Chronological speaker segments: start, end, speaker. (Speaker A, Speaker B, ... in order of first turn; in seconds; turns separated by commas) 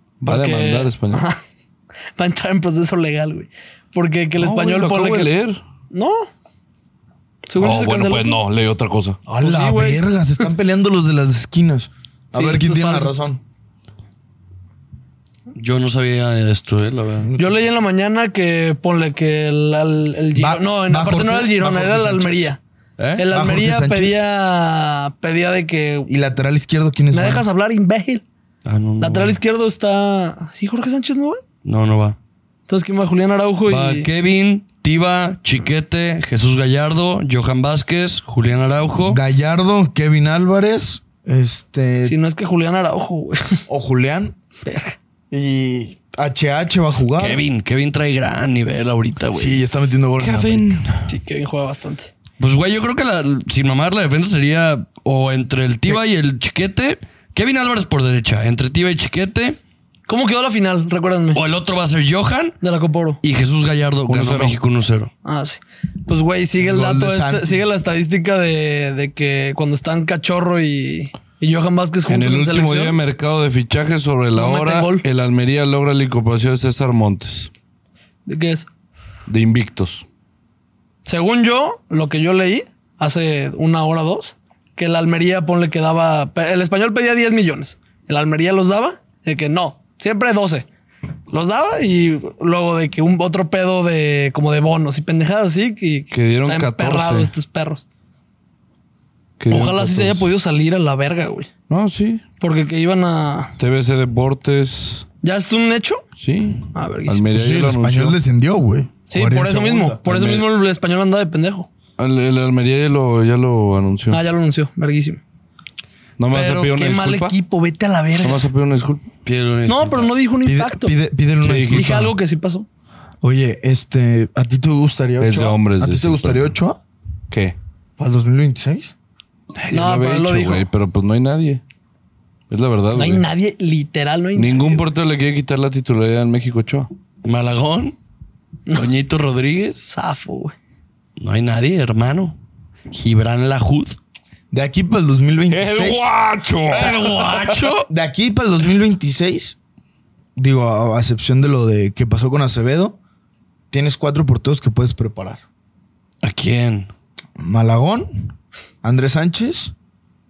Speaker A: 0.2-1.3, Speaker B: 0.3-1.4, Speaker B: 2.1-5.3, Speaker A: 4.4-5.6, Speaker B: 5.9-6.3, Speaker B: 7.5-8.4, Speaker A: 7.6-9.2, Speaker C: 9.3-13.4, Speaker B: 9.4-10.0, Speaker B: 12.3-13.1, Speaker D: 15.6-17.3, Speaker C: 17.2-17.6, Speaker B: 17.4-22.6, Speaker C: 20.4-22.5, Speaker D: 23.0-23.2, Speaker B: 23.2-26.1, Speaker C: 23.3-24.2, Speaker C: 26.1-27.5, Speaker B: 27.1-28.2, Speaker D: 28.6-29.4, Speaker B: 29.0-31.4, Speaker D: 31.6-32.2, Speaker B: 32.7-34.1, Speaker D: 33.6-39.2, Speaker C: 39.1-42.2, Speaker B: 42.0-43.6, Speaker C: 43.7-44.4, Speaker B: 44.6-45.0, Speaker C: 45.3-47.4, Speaker D: 47.2-49.6, Speaker C: 49.3-50.8, Speaker A: 50.2-51.1, Speaker B: 51.1-52.1, Speaker D: 52.4-59.6, Speaker B: 60.1-61.4, Speaker D: 61.3-62.6, Speaker B: 62.6-63.2, Speaker D: 63.2-65.1, Speaker A: 64.1-64.6, Speaker B: 65.2-73.0, Speaker C: 66.6-67.6, Speaker A: 72.1-77.5, Speaker B: 74.3-75.0, Speaker B: 78.2-78.7, Speaker A: 79.3-80.0, Speaker B: 81.0-90.7, Speaker B: 91.3-97.8, Speaker A: 96.1-97.3, Speaker A: 99.4-100.3, Speaker B: 99.5-101.5, Speaker A: 101.7-102.2, Speaker B: 102.4-103.5, Speaker A: 103.6-105.1, Speaker B: 105.2-106.0, Speaker A: 106.2-108.2, Speaker B: 106.7-107.2, Speaker C: 107.3-110.0, Speaker B: 109.1-111.7, Speaker A: 110.1-110.5, Speaker A: 112.0-114.2, Speaker B: 114.1-115.2, Speaker A: 116.2-117.3, Speaker B: 116.3-118.5, Speaker A: 118.2-119.0, Speaker D: 119.2-120.1, Speaker B: 119.7-121.0, Speaker C: 120.5-122.1, Speaker A: 121.4-122.1, Speaker B: 121.7-122.7, Speaker C: 123.2-126.8, Speaker A: 125.2-126.5, Speaker A: 127.3-127.5, Speaker C: 128.0-128.9, Speaker A: 129.6-131.6, Speaker B: 129.7-130.6, Speaker A: 132.5-133.3, Speaker B: 132.9-134.8, Speaker A: 134.4-136.9, Speaker D: 137.2-138.0, Speaker D: 138.7-139.8, Speaker B: 139.8-140.6, Speaker D: 141.2-142.4, Speaker D: 142.9-144.0, Speaker C: 144.5-146.1, Speaker A: 145.5-147.6, Speaker D: 146.7-147.9, Speaker C: 147.9-149.6, Speaker C: 150.4-153.0, Speaker C: 153.7-155.4, Speaker D: 156.2-156.9, Speaker C: 157.4-158.3, Speaker C: 158.8-159.7